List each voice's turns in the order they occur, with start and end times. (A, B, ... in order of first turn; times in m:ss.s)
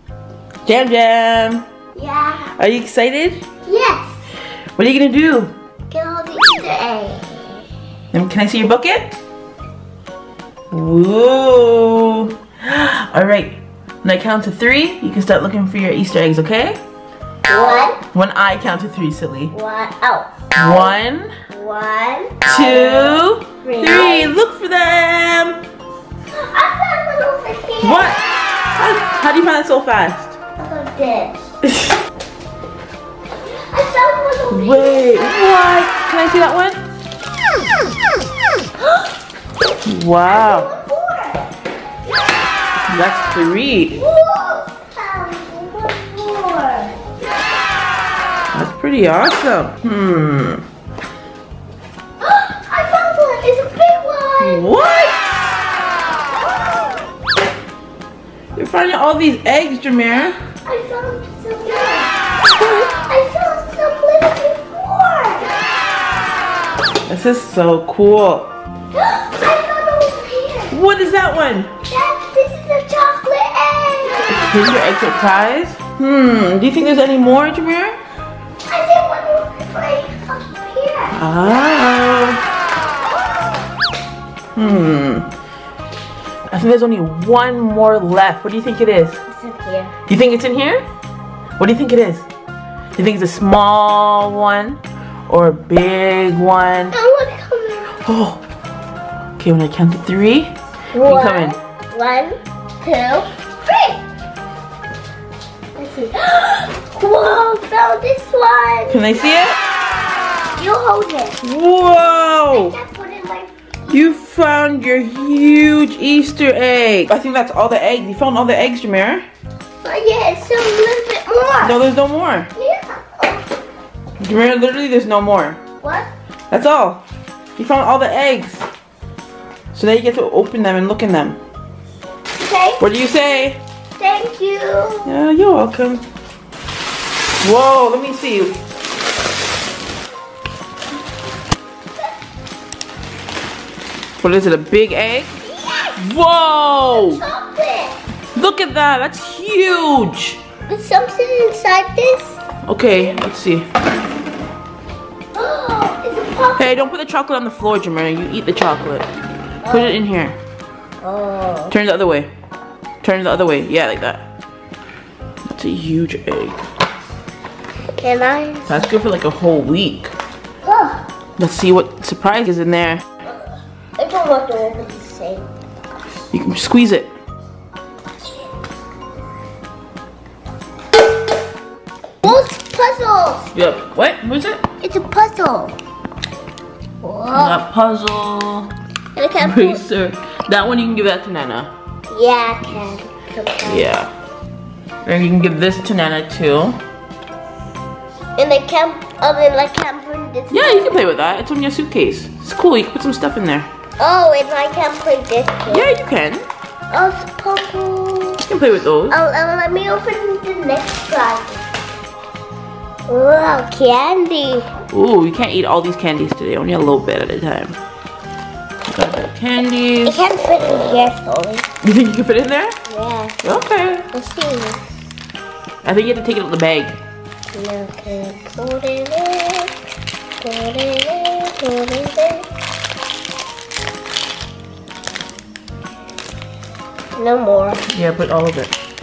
0:00.6-0:01.6 A
0:02.0-0:02.5 B
0:02.6-0:03.4 A
0:03.6-0:04.2 B
0:04.8-0:05.5 A
0:05.9-0:07.4 B
0:08.1-0:09.2 A
0:10.7-0:16.8 A
0:17.5-0:18.0 B
0:18.1-0:19.5 A
0:19.5-0:20.8 B
0:20.6-0:21.3 A
0:21.5-0:24.4 B
0:22.4-0:25.6 A
0:26.4-0:28.2 B
0:27.8-0:28.2 A
0:28.8-0:30.4 A
0:30.6-0:31.4 B
0:31.7-0:31.9 A
0:33.7-0:35.4 B
0:34.5-0:36.8 A
0:39.8-0:40.7 A
0:40.2-0:41.5 B
0:42.9-0:44.0 A
0:43.9-0:47.0 B
0:48.5-0:50.6 A
0:52.2-0:54.7 B
0:54.4-0:55.6 A
0:58.6-1:00.4 A
1:00.6-1:02.1 B
1:02.5-1:02.9 A
1:03.0-1:05.5 B
1:07.1-1:08.5 A
1:08.9-1:10.8 B
1:10.7-1:11.7 A
1:11.8-1:14.5 B
1:14.3-1:18.0 A
1:18.7-1:21.2 B
1:21.2-1:22.4 A
1:24.6-1:25.3 A
1:26.5-1:29.2 A
1:29.3-1:29.9 B
1:30.1-1:30.8 A
1:31.6-1:32.3 A
1:33.0-1:37.0 A
1:36.9-1:37.9 B
1:38.0-1:38.4 A
1:39.4-1:41.6 A
1:40.9-1:44.0 B
1:45.8-1:49.0 B
1:48.9-1:49.6 A
1:50.6-1:51.4 B
1:51.4-1:52.8 A
1:52.5-1:53.5 B
1:53.9-1:59.3 A
1:59.8-2:01.8 B
2:01.6-2:02.5 A
2:02.6-2:03.5 B
2:04.2-2:05.6 A
2:05.8-2:06.1 B
2:06.5-2:07.0 A
2:07.6-2:08.7 A
2:09.7-2:11.4 A
2:12.4-2:12.8 B
2:12.8-2:13.6 A
2:14.0-2:15.2 B
2:15.1-2:16.0 A
2:17.4-2:18.6 A
2:24.2-2:25.4 A
2:25.5-2:26.0 B
2:26.0-2:27.2 A
2:26.9-2:28.0 B
2:28.4-2:30.4 A
2:30.7-2:32.4 B
2:32.7-2:33.7 A
2:35.3-2:36.7 B
2:36.6-2:39.1 A
2:39.6-2:40.0 B
2:39.6-2:40.4 A
2:41.0-2:41.8 B
2:41.7-2:42.3 A
2:43.0-2:44.2 A
2:45.5-2:46.6 A
2:48.0-2:48.8 B
2:48.7-2:50.1 A
2:50.6-2:51.0 B
2:51.4-2:53.0 A
2:53.3-2:55.5 B
2:56.3-2:57.1 A
3:02.2-3:03.5 B
3:03.5-3:04.6 A
3:04.8-3:05.8 B
3:07.0-3:07.6 B
3:07.3-3:08.7 A
3:09.2-3:09.8 B
3:09.4-3:11.7 A
3:12.1-3:13.9 B
3:13.7-3:14.1 A
3:15.0-3:16.8 A
3:18.4-3:21.1 B
3:20.5-3:23.7 A
3:24.0-3:25.9 B
3:25.7-3:26.5 A
3:26.9-3:28.4 B
3:28.5-3:29.2 A
3:29.1-3:31.6 B
3:33.1-3:34.7 B
3:34.9-3:37.8 A
3:38.8-3:40.2 A
3:40.0-3:41.7 B
3:41.8-3:42.8 A
3:42.9-3:43.4 B
3:43.4-3:44.0 A
3:44.1-3:44.8 B
3:45.8-3:47.0 A
3:47.5-3:49.7 B
3:50.4-3:52.5 B
3:57.2-3:57.8 B
3:57.9-3:58.7 A